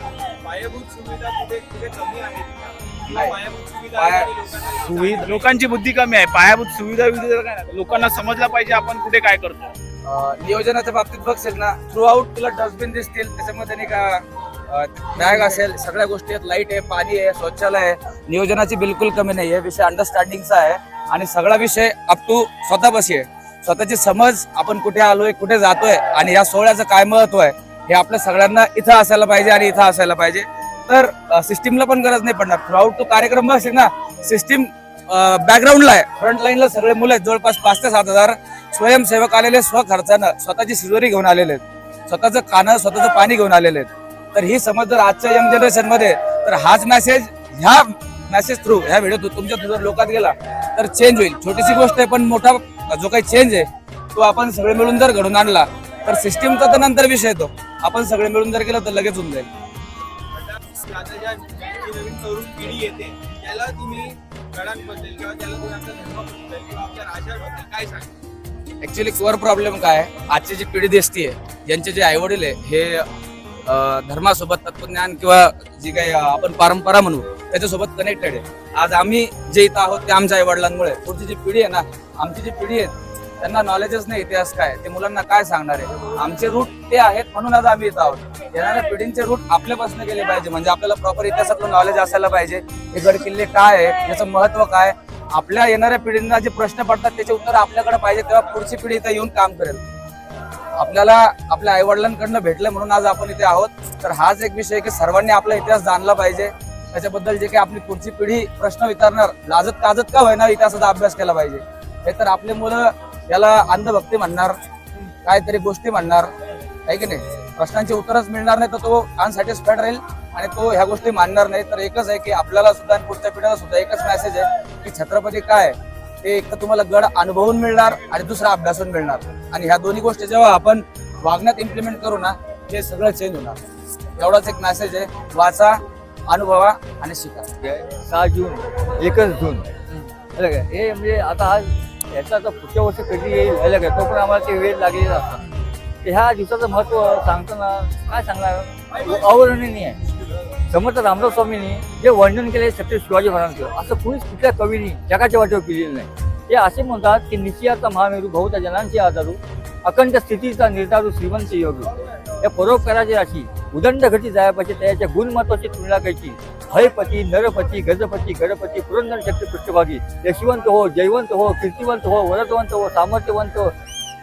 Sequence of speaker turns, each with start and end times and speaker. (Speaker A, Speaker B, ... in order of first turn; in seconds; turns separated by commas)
Speaker A: 0.4-5.5, Speaker B: 3.1-3.4, Speaker B: 3.9-4.3, Speaker C: 4.7-9.7, Speaker B: 10.1-59.5, Speaker A: 60.3-68.1, Speaker B: 68.8-73.1, Speaker B: 73.7-99.8, Speaker B: 100.8-114.6, Speaker B: 115.2-116.3, Speaker B: 116.9-133.6, Speaker B: 134.2-137.5, Speaker D: 137.6-145.4, Speaker D: 146.0-150.0, Speaker D: 150.7-173.8